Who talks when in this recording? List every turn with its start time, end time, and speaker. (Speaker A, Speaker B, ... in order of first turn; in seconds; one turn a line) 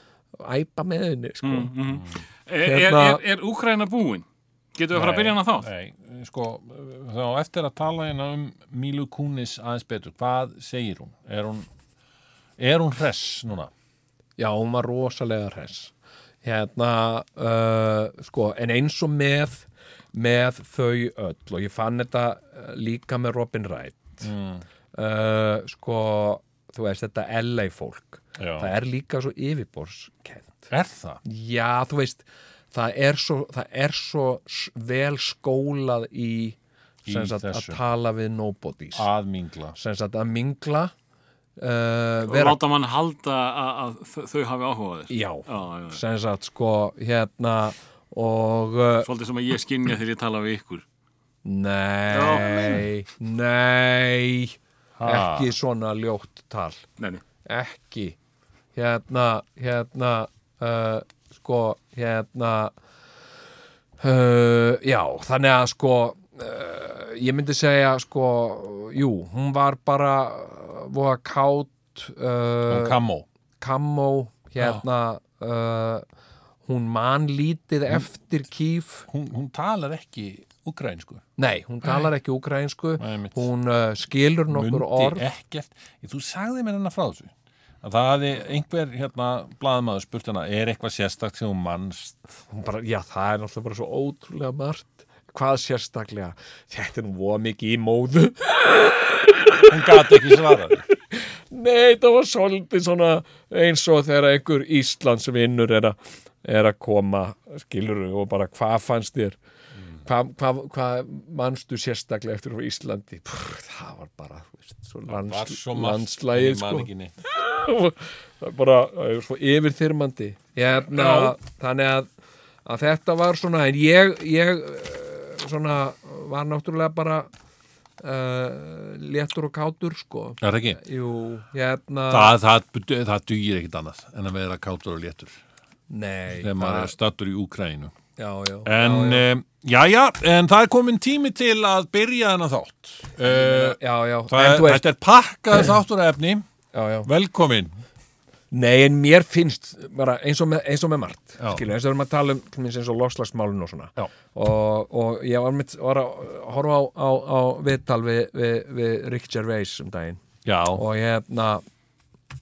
Speaker A: 0.4-1.7
Speaker B: 1.4-5.7
Speaker A: 2.6-3.2
Speaker C: 4.9-11.7
Speaker C: 12.6-13.7
Speaker A: 14.4-15.9
Speaker A: 16.4-24.3
Speaker C: 24.2-24.6
Speaker A: 24.9-30.7
Speaker C: 28.4-28.7
Speaker C: 30.7-31.2
Speaker A: 31.2-39.1
Speaker C: 37.0-37.8
Speaker C: 38.9-39.7
Speaker A: 39.7-40.9
Speaker A: 41.6-42.6
Speaker B: 42.2-46.0
Speaker A: 45.1-49.1
Speaker B: 49.0-50.8
Speaker A: 51.4-56.8
Speaker B: 52.1-52.8
Speaker C: 55.0-55.5
Speaker A: 57.5-58.2
Speaker A: 58.7-62.7
Speaker A: 64.0-73.0
Speaker C: 72.7-73.2
Speaker A: 73.6-76.0
Speaker A: 76.6-79.1
Speaker C: 79.1-81.2
Speaker A: 81.4-85.2
Speaker C: 83.0-83.5
Speaker C: 84.5-92.2
Speaker A: 92.5-109.4
Speaker C: 99.7-100.8
Speaker A: 110.0-122.1
Speaker C: 115.1-117.1
Speaker C: 120.8-121.3
Speaker A: 122.7-127.3
Speaker A: 128.0-132.3
Speaker C: 130.4-130.8
Speaker C: 132.1-135.4
Speaker A: 135.9-136.9
Speaker C: 136.4-137.9
Speaker A: 138.2-139.2
Speaker C: 138.6-146.4
Speaker A: 143.2-144.8
Speaker A: 146.7-147.1
Speaker C: 147.0-147.7
Speaker A: 148.5-160.2
Speaker C: 160.4-160.8
Speaker A: 160.7-161.6